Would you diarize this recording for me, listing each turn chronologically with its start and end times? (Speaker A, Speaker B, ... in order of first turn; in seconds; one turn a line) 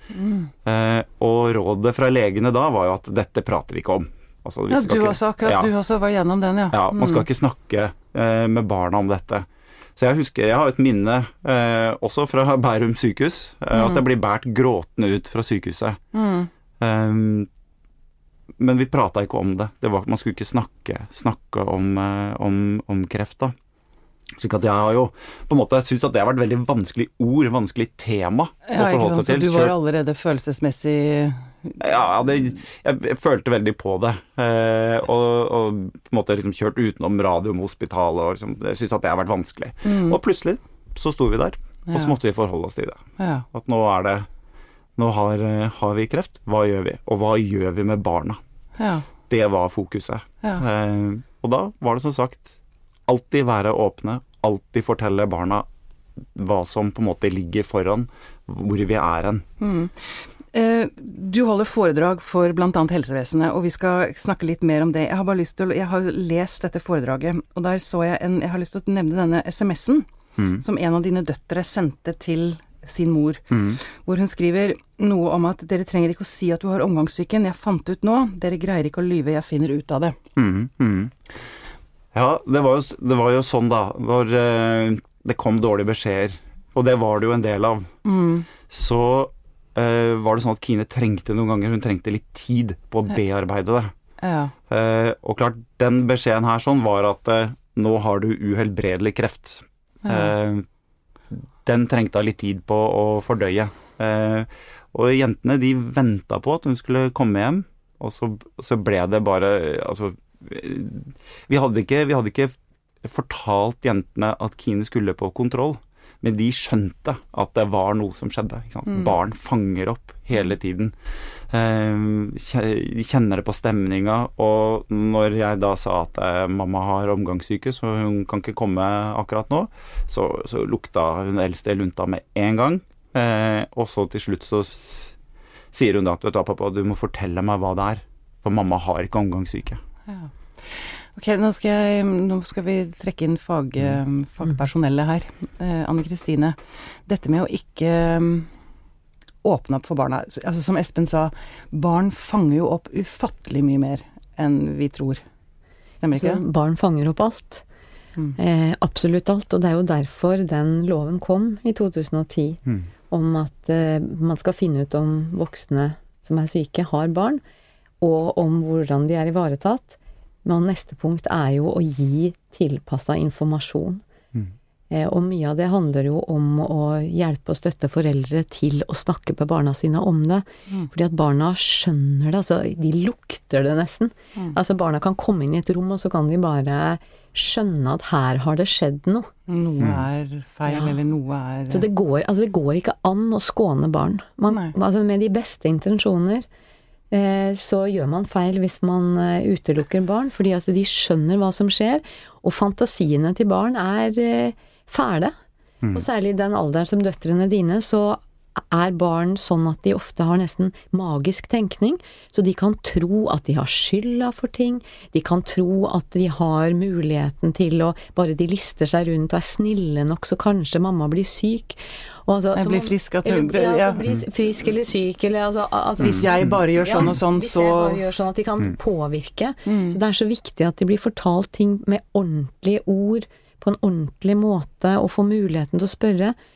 Speaker A: 0.1-0.5
Speaker B: 0.6-5.7
Speaker A: 4.7-7.2
Speaker B: 6.7-16.0
Speaker A: 13.7-14.0
Speaker A: 16.1-16.5
Speaker B: 16.8-17.5
Speaker B: 18.6-23.5
Speaker B: 24.3-29.7
Speaker A: 28.7-31.8
Speaker B: 31.8-44.3
Speaker A: 39.8-40.2
Speaker A: 41.9-42.1
Speaker A: 43.2-43.4
Speaker B: 45.0-48.4
Speaker A: 48.8-49.0
Speaker B: 49.3-52.5
Speaker B: 53.1-55.7
Speaker B: 56.3-59.5
Speaker A: 59.6-70.0
Speaker B: 70.4-70.6
Speaker A: 70.6-80.2
Speaker B: 73.5-73.8
Speaker B: 80.3-81.1
Speaker B: 82.1-87.9
Speaker A: 88.0-88.5
Speaker B: 88.7-93.9
Speaker A: 94.2-94.5
Speaker B: 94.7-100.7
Speaker A: 100.0-100.3
Speaker B: 101.3-120.9
Speaker B: 121.5-135.2
Speaker B: 135.7-139.8
Speaker A: 140.1-146.6
Speaker A: 147.1-148.5
Speaker A: 149.4-155.2
Speaker A: 156.0-156.4
Speaker C: 156.1-157.6
Speaker C: 158.4-167.4
Speaker C: 168.0-174.0
Speaker C: 174.9-189.3
Speaker A: 189.5-191.8
Speaker C: 190.7-190.9
Speaker C: 191.7-196.4
Speaker C: 197.1-205.3
Speaker C: 205.9-236.3
Speaker A: 222.5-224.0
Speaker A: 226.0-228.0
Speaker A: 229.7-230.0